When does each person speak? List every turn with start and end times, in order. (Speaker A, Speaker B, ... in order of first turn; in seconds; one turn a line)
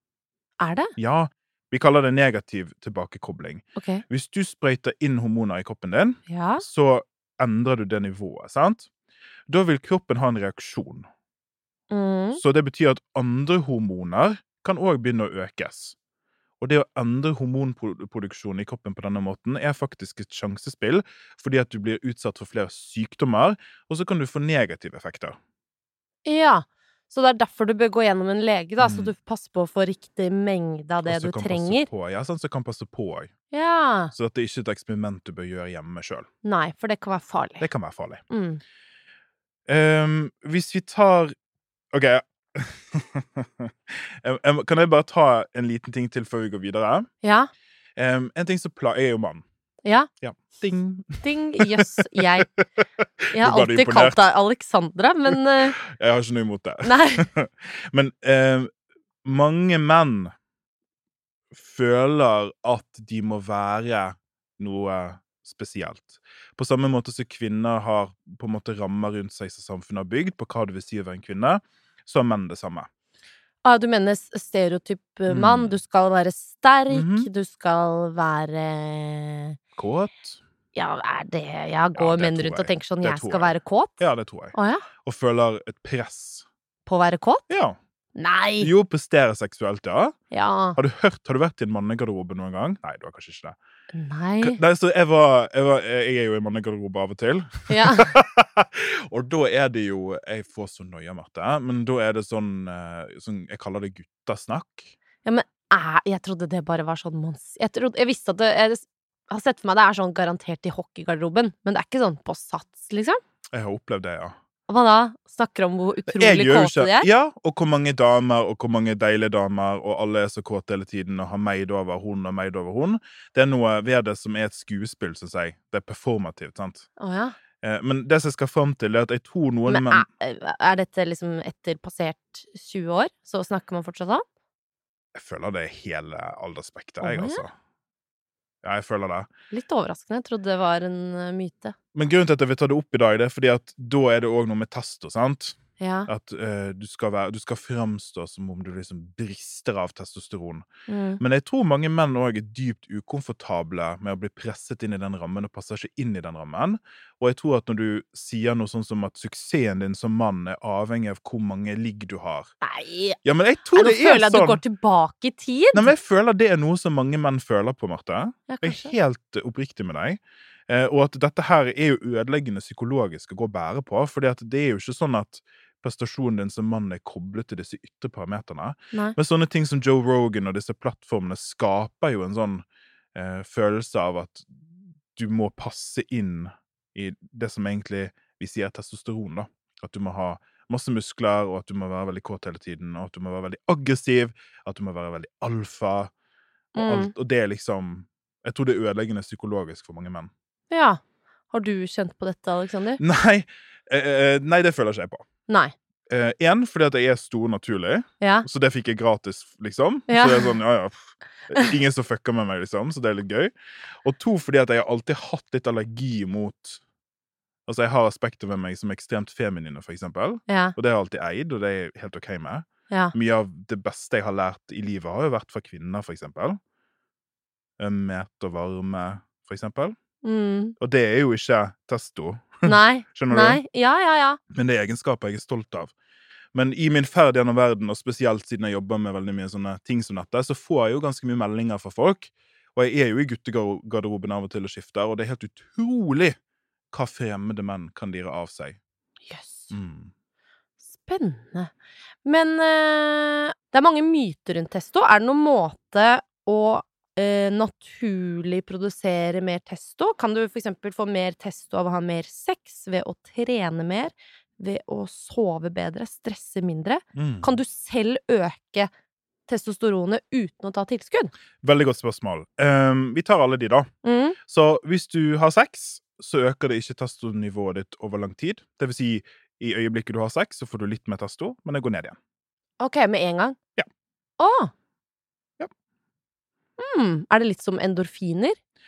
Speaker A: 0.6-0.9
Speaker B: 1.0-8.9
Speaker A: 3.8-4.0
Speaker A: 6.3-6.6
Speaker B: 9.5-11.1
Speaker A: 11.9-12.4
Speaker B: 12.4-16.0
Speaker B: 16.6-25.4
Speaker A: 26.2-31.9
Speaker B: 28.8-29.1
Speaker B: 31.0-33.3
Speaker A: 33.5-34.1
Speaker B: 34.1-36.3
Speaker A: 36.4-37.7
Speaker B: 37.6-38.2
Speaker A: 38.3-38.6
Speaker B: 39.7-41.3
Speaker B: 41.9-47.1
Speaker A: 47.2-47.5
Speaker B: 48.0-49.4
Speaker B: 50.2-54.2
Speaker A: 51.2-52.5
Speaker A: 53.3-55.8
Speaker B: 55.3-58.7
Speaker A: 56.8-57.3
Speaker B: 59.2-60.3
Speaker B: 61.5-72.9
Speaker A: 73.6-79.6
Speaker B: 75.3-75.7
Speaker B: 76.9-77.3
Speaker B: 79.8-80.4
Speaker A: 80.8-84.9
Speaker B: 82.0-86.5
Speaker A: 86.9-87.5
Speaker B: 87.5-87.8
Speaker A: 88.2-88.7
Speaker B: 88.6-90.2
Speaker A: 90.3-90.8
Speaker B: 90.8-93.6
Speaker A: 93.9-94.6
Speaker B: 94.4-104.9
Speaker A: 97.7-98.2
Speaker A: 105.2-113.2
Speaker B: 113.5-114.3
Speaker A: 114.7-117.1
Speaker B: 116.1-126.9
Speaker A: 127.0-127.4
Speaker B: 127.6-130.1
Speaker A: 129.7-134.2
Speaker B: 135.2-137.5
Speaker A: 137.0-137.4
Speaker B: 138.6-139.3
Speaker A: 139.5-141.8
Speaker B: 141.9-150.7
Speaker A: 145.8-146.1
Speaker A: 150.9-151.2
Speaker B: 151.2-162.5
Speaker A: 162.6-163.2
Speaker B: 163.2-164.6
Speaker A: 163.8-165.9
Speaker B: 165.7-196.1
Speaker A: 168.5-168.9
Speaker A: 196.7-197.1
Speaker B: 196.8-200.3
Speaker A: 200.7-201.0
Speaker A: 201.5-203.0
Speaker B: 203.0-205.3
Speaker A: 205.5-205.7
Speaker B: 206.1-213.5
Speaker A: 208.2-208.5
Speaker A: 210.1-210.6
Speaker B: 214.0-216.8
Speaker B: 217.7-226.6
Speaker A: 220.5-220.8
Speaker B: 227.8-229.9
Speaker A: 230.2-230.8
Speaker B: 230.8-233.6
Speaker A: 232.7-234.4
Speaker B: 234.5-235.9
Speaker B: 236.5-246.4
Speaker B: 246.9-248.8
Speaker A: 249.3-249.7
Speaker B: 249.7-250.1
Speaker A: 250.9-251.7
Speaker A: 252.2-268.9
Speaker B: 267.1-267.6
Speaker A: 269.5-271.3
Speaker B: 271.6-273.9
Speaker A: 274.0-274.4
Speaker B: 274.4-282.2
Speaker A: 282.8-283.6
Speaker A: 284.4-284.7
Speaker A: 286.8-288.6